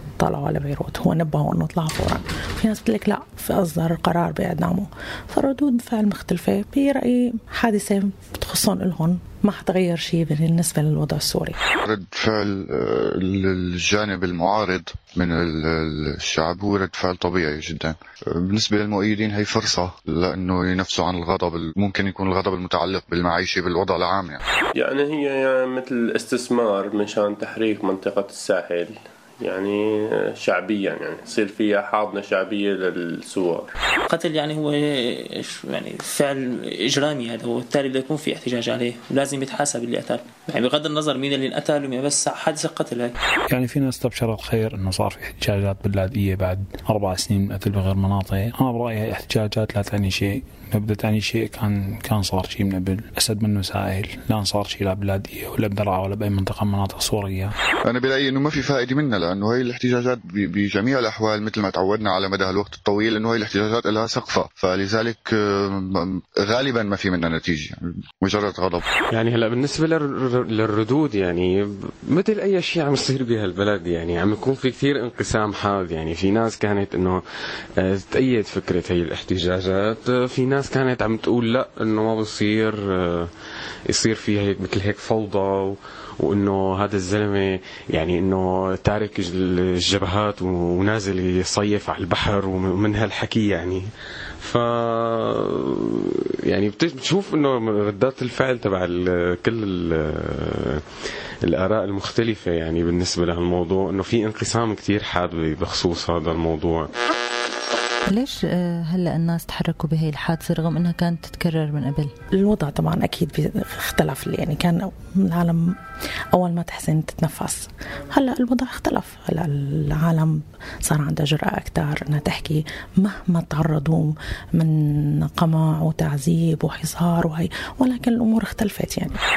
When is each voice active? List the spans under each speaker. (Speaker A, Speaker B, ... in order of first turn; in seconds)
Speaker A: 0.2-11.6, 112.3-115.7, 116.3-129.2
Speaker B: 11.8-24.4, 57.9-68.8
Speaker C: 24.8-33.7
Speaker D: 34.1-43.1
Speaker E: 43.5-57.5
Speaker F: 69.1-77.2, 77.8-83.3, 83.9-93.8, 94.4-100.8, 101.4-106.9
Speaker G: 108.1-112.1